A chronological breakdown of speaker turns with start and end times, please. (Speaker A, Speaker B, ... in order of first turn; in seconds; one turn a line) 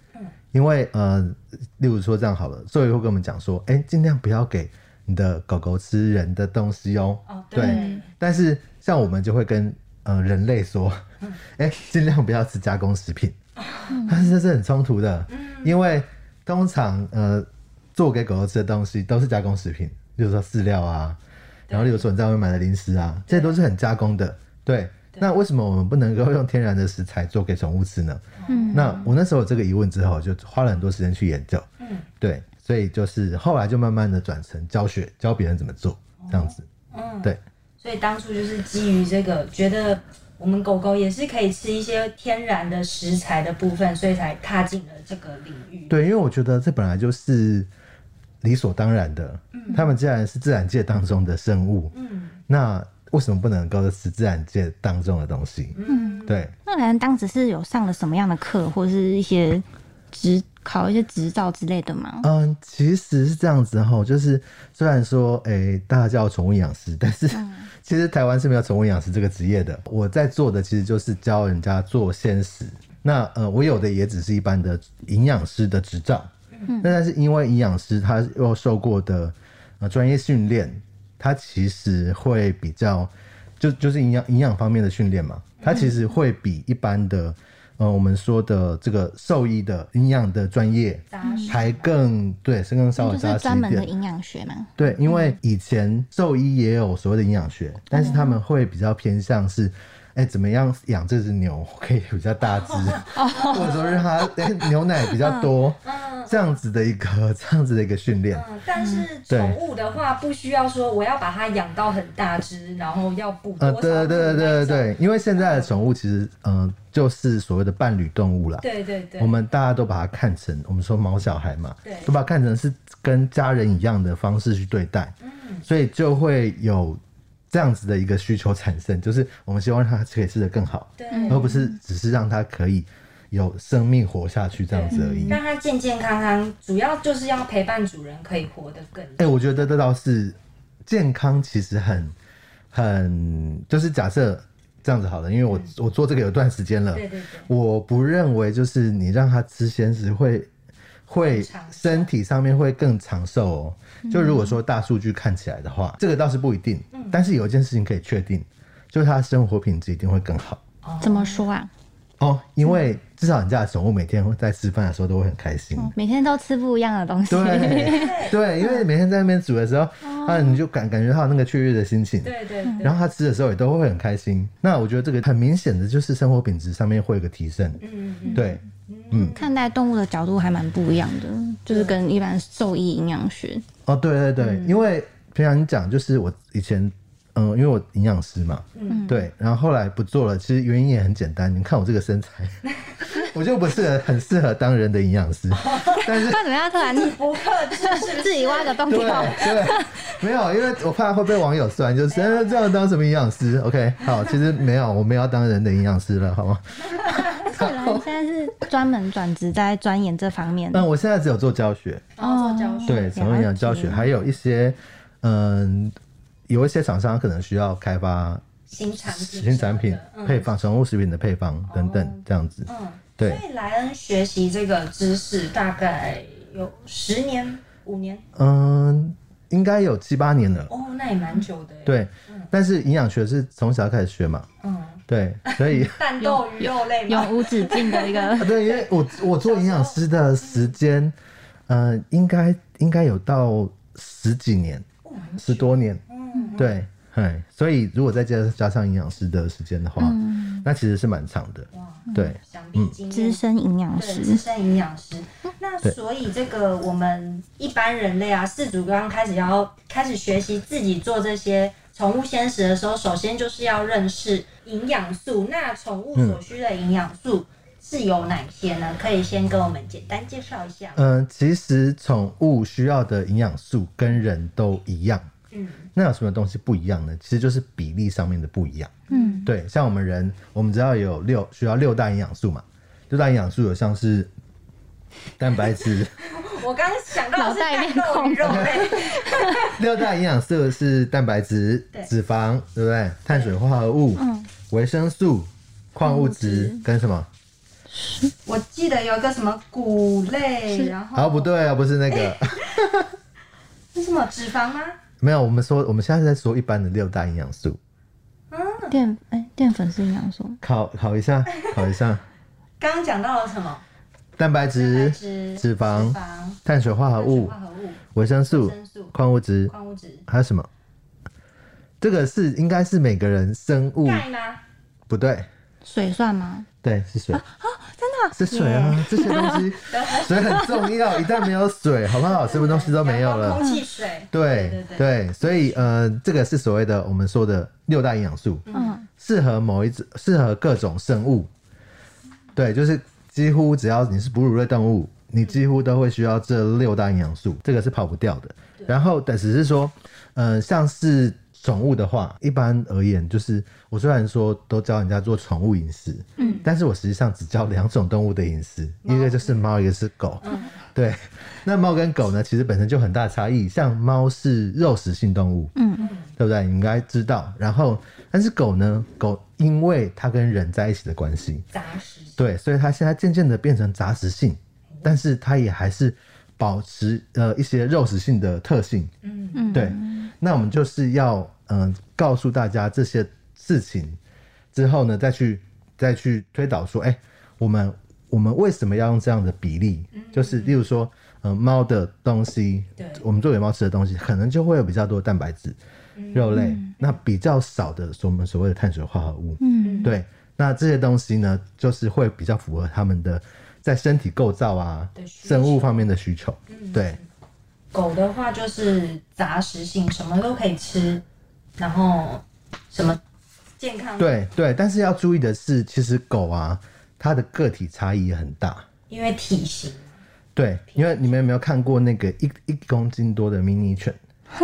Speaker A: 0.5-11.0
Speaker B: 7.3-8.1
Speaker C: 7.6-8.0
Speaker A: 11.6-13.3
Speaker B: 13.6-14.0
Speaker C: 13.9-14.3
Speaker A: 14.1-31.7
Speaker B: 15.3-15.8
Speaker B: 21.7-22.1
Speaker B: 23.3-23.6
Speaker B: 28.4-29.1
Speaker C: 28.5-29.0
Speaker B: 31.8-32.1
Speaker A: 32.2-36.7
Speaker B: 36.2-46.0
Speaker A: 45.9-47.7
Speaker A: 48.4-51.9
Speaker B: 49.5-49.9
Speaker B: 51.9-52.4
Speaker A: 52.5-56.5
Speaker B: 55.7-56.5
Speaker C: 55.9-62.3
Speaker A: 62.2-93.9
Speaker C: 67.3-67.7
Speaker B: 76.5-76.8
Speaker C: 76.7-77.0
Speaker B: 85.6-85.9
Speaker B: 91.1-91.9
Speaker C: 91.2-91.6
Speaker C: 93.0-94.7
Speaker A: 94.8-108.5
Speaker C: 97.9-98.4
Speaker B: 102.5-104.0
Speaker C: 103.1-104.4
Speaker C: 105.2-105.5
Speaker B: 105.8-106.6
Speaker B: 108.3-115.8
Speaker A: 109.3-109.6
Speaker A: 113.6-118.7
Speaker B: 118.6-119.3
Speaker A: 119.2-125.1
Speaker B: 121.8-122.2
Speaker B: 125.2-125.7
Speaker A: 125.7-127.0
Speaker A: 127.5-135.4
Speaker B: 131.0-131.5
Speaker C: 131.1-131.8
Speaker B: 134.7-139.7
Speaker C: 134.9-135.4
Speaker A: 139.2-142.1
Speaker A: 142.7-150.5
Speaker B: 145.5-145.7
Speaker B: 146.9-147.5
Speaker A: 151.1-160.6
Speaker B: 151.2-152.1
Speaker C: 154.1-154.6
Speaker B: 156.9-157.2
Speaker B: 160.8-161.4
Speaker C: 161.0-161.7
Speaker A: 162.2-165.9
Speaker C: 165.8-168.9
Speaker A: 167.3-177.8
Speaker B: 167.8-168.4
Speaker C: 170.0-170.6
Speaker B: 172.2-173.1
Speaker B: 177.8-179.5
Speaker C: 178.2-178.6
Speaker A: 178.3-179.4
Speaker C: 179.2-183.7
Speaker B: 181.7-182.0
Speaker A: 183.9-196.4
Speaker B: 184.4-184.8
Speaker B: 188.8-189.1
Speaker C: 188.9-189.3
Speaker B: 195.5-196.1
Speaker C: 196.0-200.0
Speaker B: 196.7-199.4
Speaker A: 198.9-208.1
Speaker B: 202.1-202.8
Speaker B: 207.0-207.3
Speaker C: 207.4-210.9
Speaker A: 210.7-212.1
Speaker B: 212.2-213.1
Speaker C: 212.2-214.1
Speaker A: 212.9-215.9
Speaker A: 216.5-218.4
Speaker B: 218.7-220.6
Speaker A: 219.1-223.4
Speaker B: 221.7-228.2
Speaker A: 228.3-230.7
Speaker B: 230.7-232.5
Speaker A: 231.9-234.5
Speaker B: 234.6-240.8
Speaker A: 235.1-236.0
Speaker C: 235.8-238.6
Speaker A: 238.4-241.2
Speaker A: 241.7-244.9
Speaker B: 245.0-246.8
Speaker A: 245.4-246.0
Speaker A: 246.6-253.0
Speaker C: 250.0-250.7
Speaker B: 251.7-253.4
Speaker C: 252.1-252.4
Speaker C: 253.1-254.4
Speaker B: 253.9-271.1
Speaker A: 266.1-266.4
Speaker A: 271.0-275.2
Speaker B: 275.5-275.9
Speaker A: 275.9-284.3
Speaker B: 279.1-279.4
Speaker C: 279.1-279.5
Speaker A: 285.4-286.1
Speaker B: 286.2-289.7
Speaker C: 287.4-289.6
Speaker A: 288.4-289.1
Speaker A: 289.6-297.3
Speaker C: 294.2-294.5
Speaker C: 296.0-296.8
Speaker C: 297.9-298.3
Speaker B: 298.4-301.6
Speaker A: 301.1-303.1
Speaker B: 302.1-302.9
Speaker B: 303.9-305.0
Speaker A: 305.2-307.8
Speaker B: 308.5-309.0
Speaker C: 308.9-310.6
Speaker A: 310.6-312.2
Speaker B: 311.5-311.9
Speaker B: 312.8-313.8
Speaker A: 314.4-317.6
Speaker B: 314.7-319.1
Speaker A: 318.1-319.7
Speaker B: 319.7-320.3
Speaker A: 320.3-320.7
Speaker A: 322.0-324.2
Speaker B: 324.0-324.6
Speaker A: 325.1-325.5
Speaker C: 325.8-326.7
Speaker A: 326.8-327.4
Speaker C: 327.3-329.8
Speaker A: 328.3-333.6
Speaker B: 329.9-330.8
Speaker C: 330.5-331.3
Speaker B: 332.2-335.9
Speaker A: 334.3-338.6
Speaker B: 338.7-338.9
Speaker C: 338.7-339.1
Speaker A: 339.2-341.5
Speaker A: 342.6-365.7
Speaker B: 356.4-356.7
Speaker B: 359.0-359.6
Speaker B: 360.4-360.8
Speaker C: 365.8-366.1
Speaker B: 366.0-366.3
Speaker A: 366.4-371.7
Speaker B: 371.7-372.4
Speaker A: 372.4-379.1
Speaker B: 379.2-379.8
Speaker C: 379.6-380.3
Speaker A: 379.7-384.2
Speaker A: 384.7-395.8
Speaker B: 390.1-390.8
Speaker B: 393.0-393.2
Speaker B: 396.2-397.2
Speaker A: 396.3-407.2
Speaker C: 396.5-396.9
Speaker C: 399.6-400.1
Speaker B: 399.8-400.2
Speaker B: 405.1-406.1
Speaker B: 406.7-407.3
Speaker B: 407.9-411.2
Speaker B: 411.8-413.2
Speaker B: 413.8-414.4
Speaker A: 414.2-418.9
Speaker B: 419.1-420.2
Speaker A: 420.6-424.2
Speaker B: 420.9-421.4